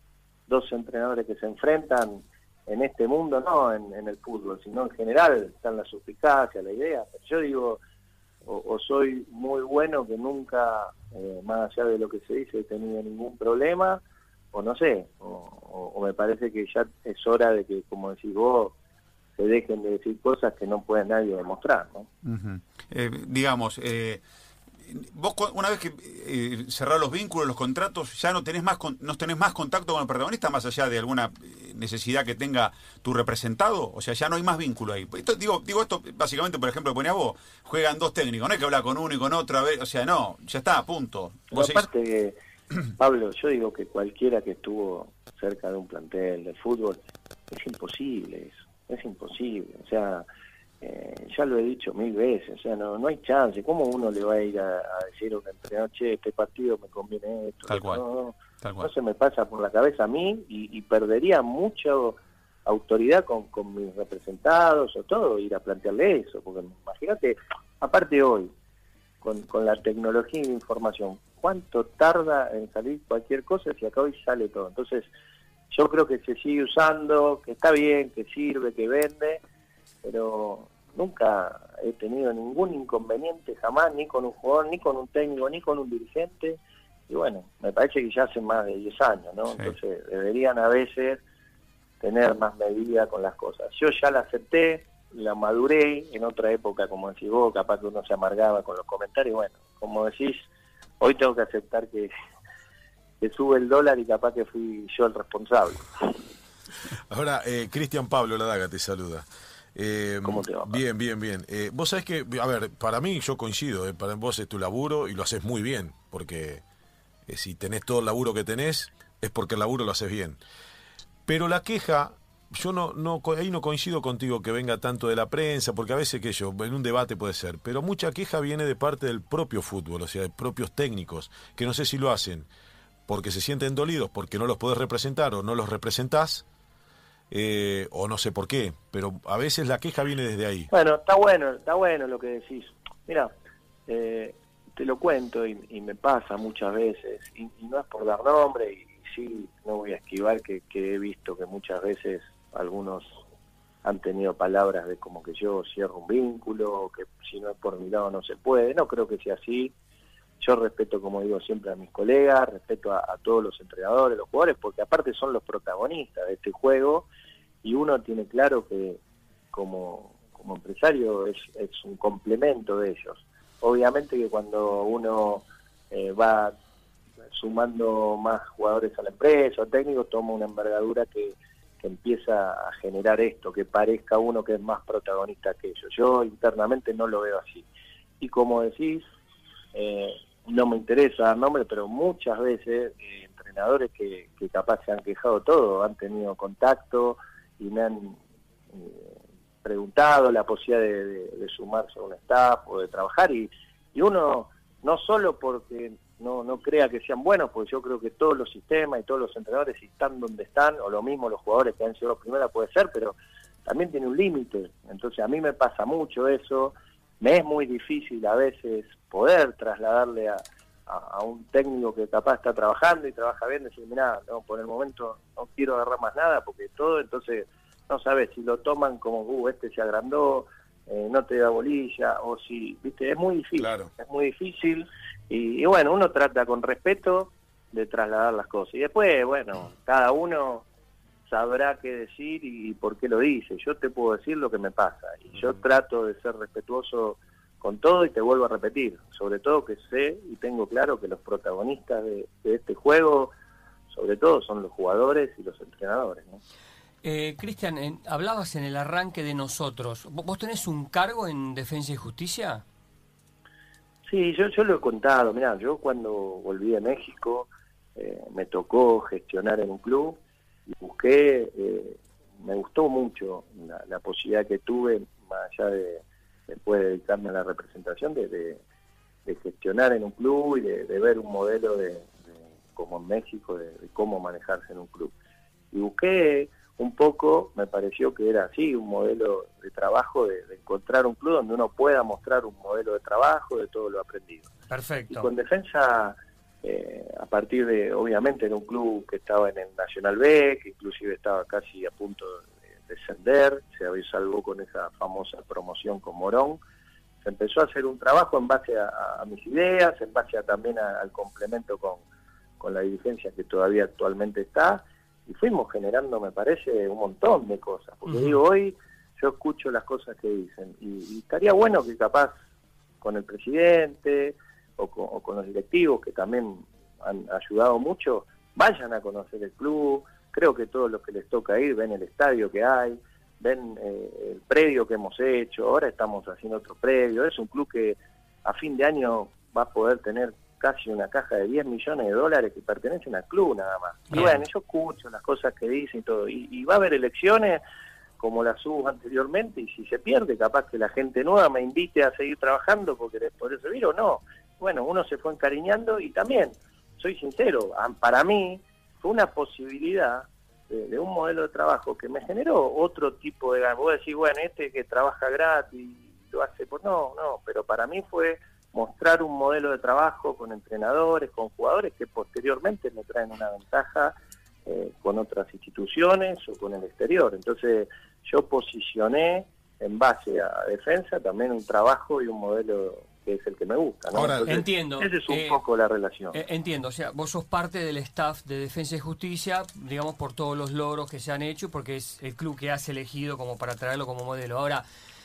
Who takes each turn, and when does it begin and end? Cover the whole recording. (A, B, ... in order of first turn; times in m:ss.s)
0:00.5-0:07.8 A
0:08.4-0:14.0 A
0:14.5-0:18.7 A
0:19.4-0:22.1 A
0:22.2-0:24.2 B
0:24.8-0:41.9 B
0:41.5-0:42.4 A
0:43.0-0:50.2 A
0:50.8-1:08.5 A
0:57.7-0:58.0 B
0:58.6-0:58.9 B
1:09.2-1:15.1 A
1:15.7-1:19.4 A
1:20.0-1:31.2 A
1:32.0-1:40.5 A
1:41.0-1:42.1 A
1:43.2-1:46.1 A
1:47.1-1:56.6 C
1:50.2-1:50.8 A
1:57.3-2:00.4 C
2:01.3-2:12.5 C
2:13.1-2:16.4 C
2:17.3-2:20.7 C
2:20.7-2:23.3 A
2:23.9-2:33.2 A
2:33.8-2:39.7 A
2:40.4-2:47.0 A
2:47.6-2:49.0 A
2:49.5-2:56.5 A
2:57.3-3:07.7 A
3:08.2-3:09.0 A
3:09.7-3:18.2 A
3:18.7-4:00.6 A
3:53.6-3:53.9 C
4:01.3-4:13.3 A
4:13.9-4:16.4 A
4:17.0-4:22.6 D
4:24.0-4:38.6 A
4:39.2-4:45.1 A
4:45.7-4:54.5 A
4:54.7-4:55.3 D
4:55.1-5:06.6 A
5:07.2-5:12.0 A
5:12.6-5:22.3 A
5:23.0-5:47.6 A
5:44.1-5:44.4 D
5:48.2-6:14.1 A
6:14.6-6:26.4 A
6:24.1-6:24.6 C
6:24.4-6:25.6 D
6:26.3-6:34.8 D